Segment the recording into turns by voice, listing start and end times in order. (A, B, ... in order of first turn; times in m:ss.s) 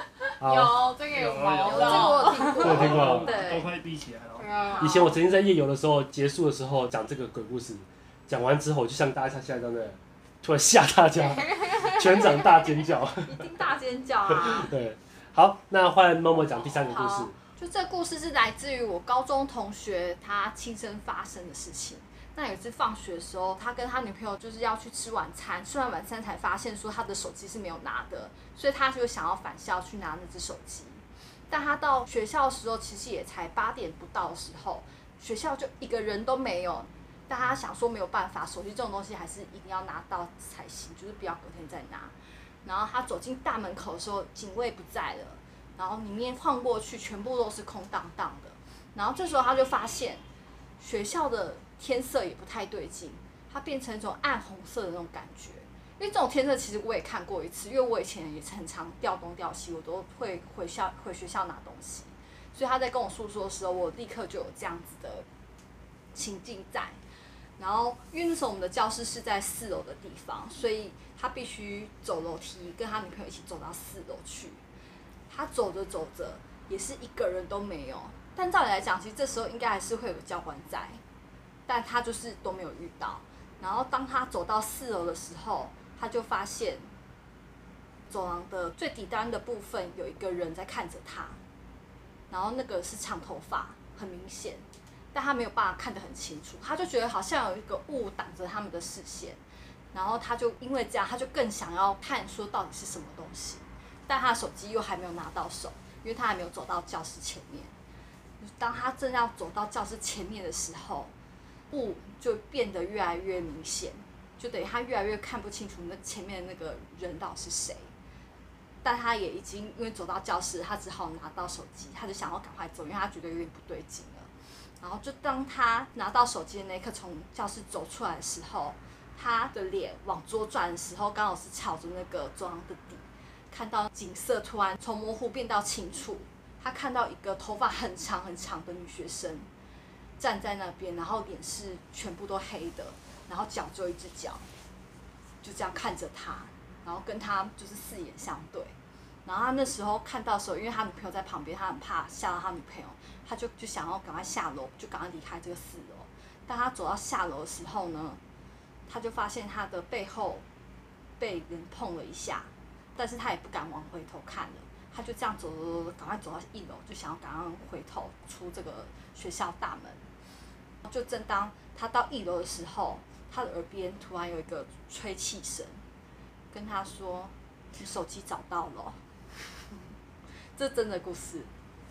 0:00.4-0:00.8 A
0:00.4-0:02.9 B
0:01.1-0:04.5 C
0:01.6-0:03.7 D
0:02.6-0:03.3 A
0:04.4-0:05.1 B
0:04.8-0:05.1 D
0:04.8-0:13.6 A
0:12.2-0:12.6 D
0:13.2-0:14.7 D
0:14.3-0:17.3 A
0:16.7-0:42.1 D
0:42.6-0:50.2 D
0:50.8-1:05.2 D
1:06.1-1:07.0 D
1:07.6-1:14.6 D
1:15.3-1:21.0 D
1:21.7-1:26.9 D
1:28.1-1:31.4 D
1:32.3-1:39.4 D
1:39.9-1:47.7 D
1:48.4-1:51.1 D
1:51.7-1:57.9 D
1:58.8-2:04.3 D
2:04.8-2:19.5 D
2:20.2-2:24.5 D
2:25.4-2:28.7 D
2:29.2-2:38.2 D
2:38.9-2:40.4 D
2:41.2-2:50.0 D
2:50.8-2:55.8 D
2:56.5-2:59.0 D
3:00.6-3:01.5 D